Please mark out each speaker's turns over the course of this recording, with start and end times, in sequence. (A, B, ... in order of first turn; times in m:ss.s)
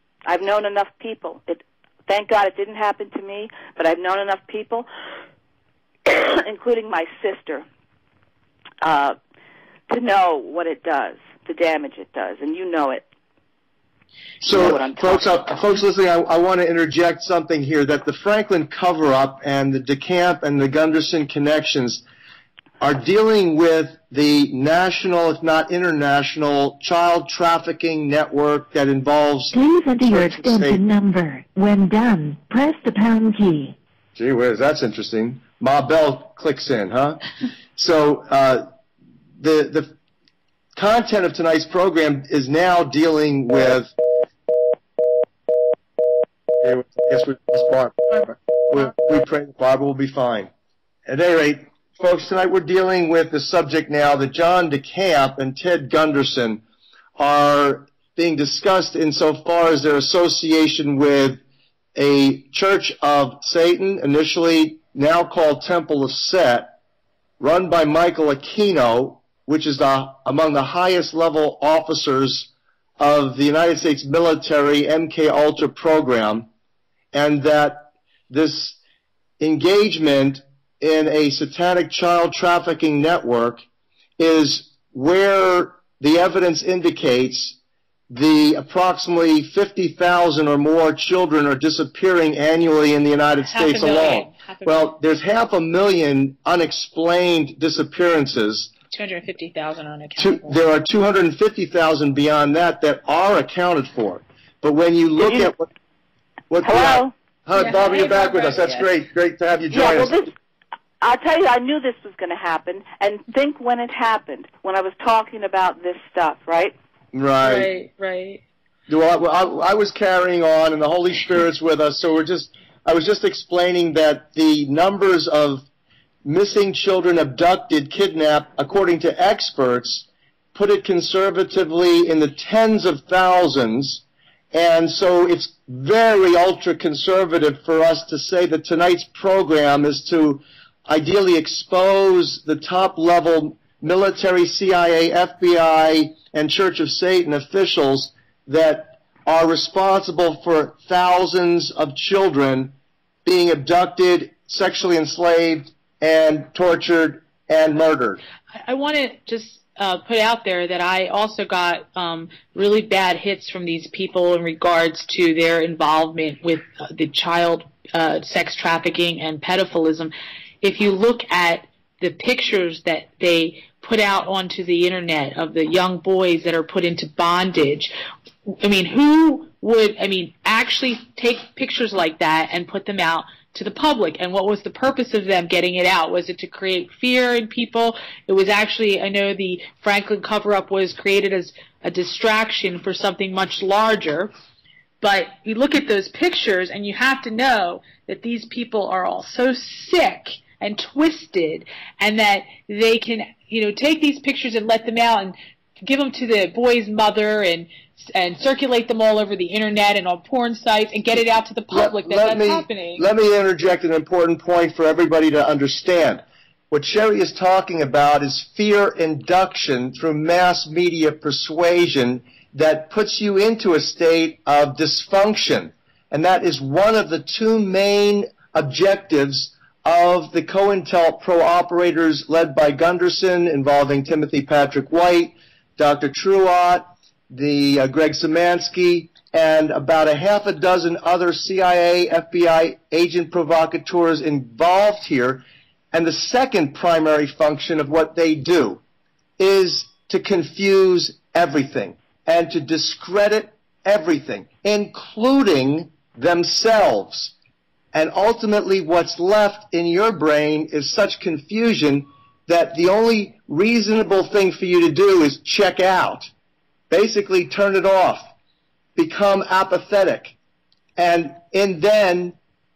0:00.3-0:04.9 A
0:06.1-0:07.6 A
0:08.8-0:09.2 A
0:09.9-0:13.0 A
0:14.4-0:22.0 B
0:14.5-0:15.3 A
0:22.8-0:30.8 B
0:29.5-0:33.7 C
0:34.2-0:37.2 B
0:37.8-0:38.7 B
0:39.4-0:40.0 B
0:40.8-0:43.9 B
0:46.6-0:50.5 B
0:51.1-0:56.6 B
0:57.2-1:01.4 B
1:02.0-1:06.8 B
1:07.4-1:16.5 B
1:17.1-1:18.8 B
1:19.4-1:23.6 B
1:24.2-1:27.6 B
1:28.1-1:38.7 B
1:33.4-1:34.9 D
1:38.9-1:40.6 D
1:40.2-1:45.7 B
1:45.2-1:45.5 A
1:46.5-1:50.2 B
1:46.6-1:47.1 A
1:47.5-1:48.9 D
1:49.7-1:50.3 A
1:51.0-1:56.7 A
1:57.1-1:57.7 B
1:57.4-1:58.4 D
1:58.9-2:05.7 B
2:06.2-2:38.2 B
2:38.6-2:57.9 D
2:58.6-3:14.3 D
3:15.0-3:33.0 D
3:31.7-4:08.8 B
4:09.4-4:17.4 B
4:17.9-4:26.3 B
4:26.9-4:28.3 B
4:29.0-4:30.4 B
4:31.0-4:32.4 B